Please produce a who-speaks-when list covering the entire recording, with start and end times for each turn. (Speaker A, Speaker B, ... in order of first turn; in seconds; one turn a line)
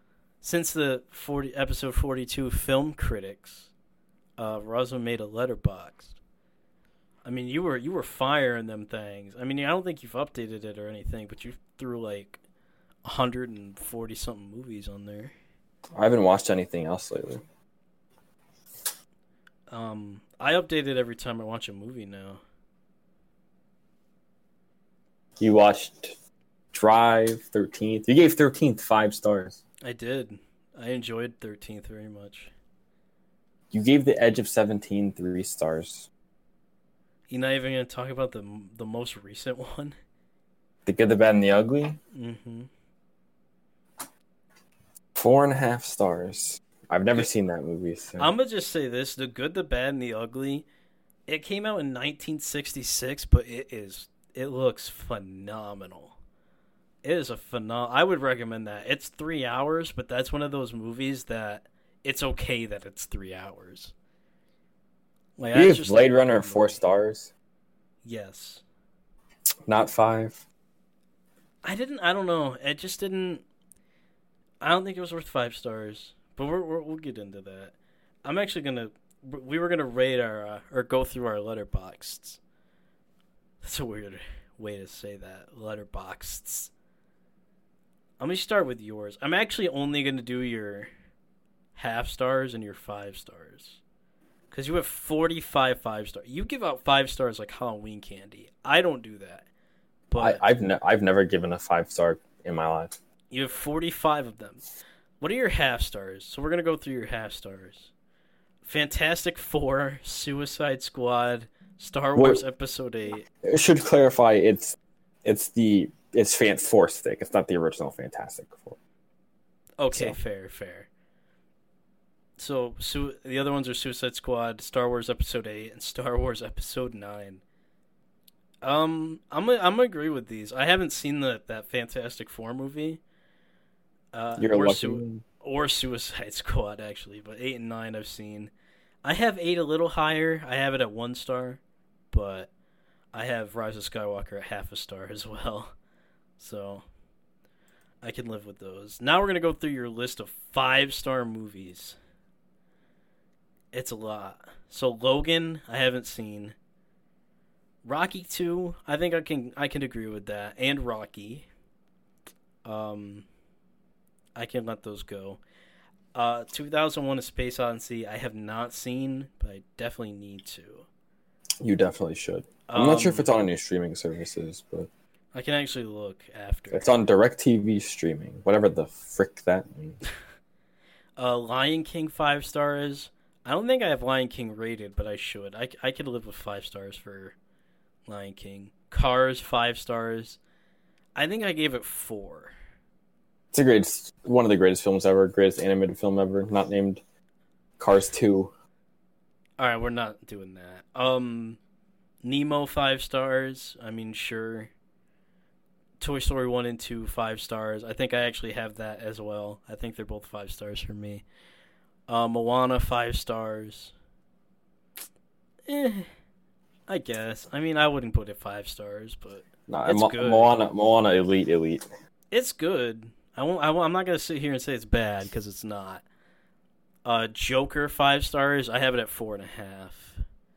Speaker A: 0.4-3.7
Speaker A: 4.4-6.1
Speaker A: 7.2-12.4
Speaker A: 13.0-15.3
Speaker B: 15.9-17.4
Speaker A: 19.7-22.4
Speaker B: 25.4-26.1
Speaker B: 26.7-29.6
Speaker A: 29.8-32.5
Speaker B: 33.7-36.1
Speaker A: 37.3-40.0
Speaker B: 40.9-42.0
Speaker A: 42.1-42.7
Speaker B: 45.1-48.3
Speaker A: 48.2-50.6
Speaker A: 51.3-56.1
Speaker A: 57.0-63.9
Speaker A: 65.4-66.8
Speaker B: 65.5-67.3
Speaker A: 68.0-68.6
Speaker B: 69.7-70.4
Speaker A: 71.6-73.4
Speaker A: 74.6-77.7
Speaker A: 78.2-82.4
Speaker A: 83.6-86.7
Speaker A: 88.2-90.9
Speaker A: 91.8-93.8
Speaker A: 94.5-99.5
Speaker A: 100.1-100.4
Speaker B: 100.2-103.0
Speaker A: 103.3-104.6
Speaker A: 105.2-107.9
Speaker A: 108.6-113.3
Speaker B: 112.1-112.4
Speaker B: 113.4-118.8
Speaker A: 119.8-120.9
Speaker B: 119.9-120.2
Speaker A: 122.4-127.4
Speaker A: 128.6-133.0
Speaker A: 134.1-138.5
Speaker B: 134.4-135.2
Speaker A: 139.0-141.6
Speaker A: 142.1-142.5
Speaker A: 143.1-145.7
Speaker A: 146.4-146.8
Speaker A: 148.0-152.0
Speaker A: 153.7-156.6
Speaker A: 157.8-161.5
Speaker A: 162.6-163.2
Speaker A: 164.3-165.4
Speaker A: 166.1-170.8
Speaker B: 171.6-174.9
Speaker A: 172.7-173.3
Speaker A: 175.3-176.9
Speaker B: 176.7-180.0
Speaker A: 181.2-187.3
Speaker A: 188.1-190.4
Speaker A: 191.1-192.5
Speaker B: 193.5-197.0
Speaker B: 197.8-198.5
Speaker A: 199.6-201.6
Speaker A: 202.2-204.7
Speaker A: 206.0-211.2
Speaker A: 212.1-213.9
Speaker A: 215.7-216.1
Speaker A: 216.9-220.6
Speaker B: 219.7-221.8
Speaker A: 222.3-226.0
Speaker A: 227.0-230.2